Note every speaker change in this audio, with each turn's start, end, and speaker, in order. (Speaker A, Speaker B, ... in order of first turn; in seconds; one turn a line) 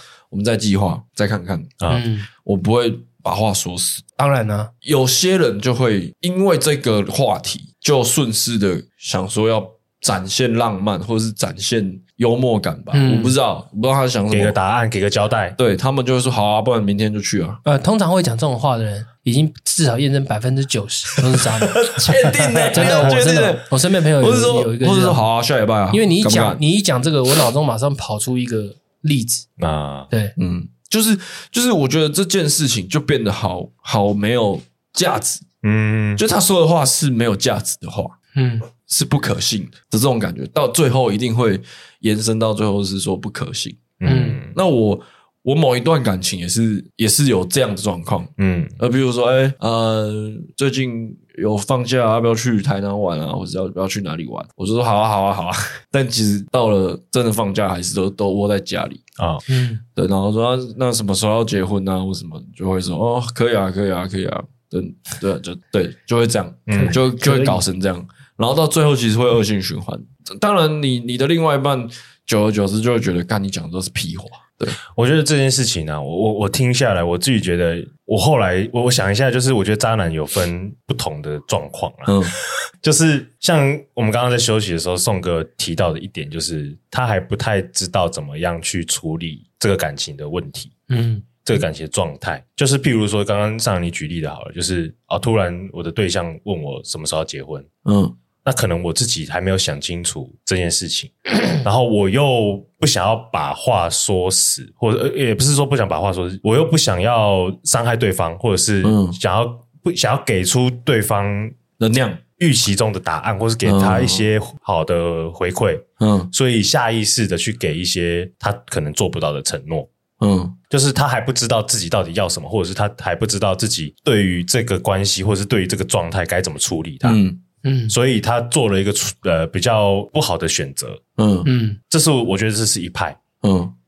Speaker A: 0.3-1.8
Speaker B: 1.9-2.3
Speaker A: 2.4-4.1
Speaker B: 4.2-4.7
Speaker A: 4.8-14.6
Speaker B: 12.9-13.4
Speaker C: 14.3-15.6
Speaker A: 15.6-17.6
Speaker B: 17.6-22.1
Speaker A: 21.8-26.6
Speaker C: 22.1-23.4
Speaker B: 22.7-25.2
Speaker B: 25.9-29.5
Speaker C: 29.6-30.1
Speaker A: 30.4-35.5
Speaker C: 35.6-36.2
Speaker A: 36.2-38.1
Speaker B: 38.4-38.7
Speaker A: 38.9-43.9
Speaker C: 44.0-44.6
Speaker B: 44.0-44.4
Speaker A: 44.5-59.0
Speaker C: 48.4-48.8
Speaker C: 59.2-59.4
Speaker B: 59.5-59.8
Speaker A: 60.0-74.8
Speaker C: 66.7-67.0
Speaker B: 66.7-67.6
Speaker C: 74.9-90.7
Speaker A: 82.1-82.3
Speaker B: 90.9-91.3
Speaker C: 91.4-97.7
Speaker A: 97.8-98.2
Speaker C: 98.4-111.6
Speaker A: 108.8-109.2
Speaker A: 111.8-112.2
Speaker C: 112.4-119.9
Speaker A: 113.6-114.3
Speaker A: 116.0-116.3
Speaker A: 120.2-120.6
Speaker C: 120.7-127.2
Speaker A: 127.0-127.4
Speaker B: 127.6-128.0
Speaker C: 127.9-131.0
Speaker A: 131.2-131.5
Speaker B: 131.4-131.8
Speaker C: 131.9-133.2
Speaker A: 133.4-133.7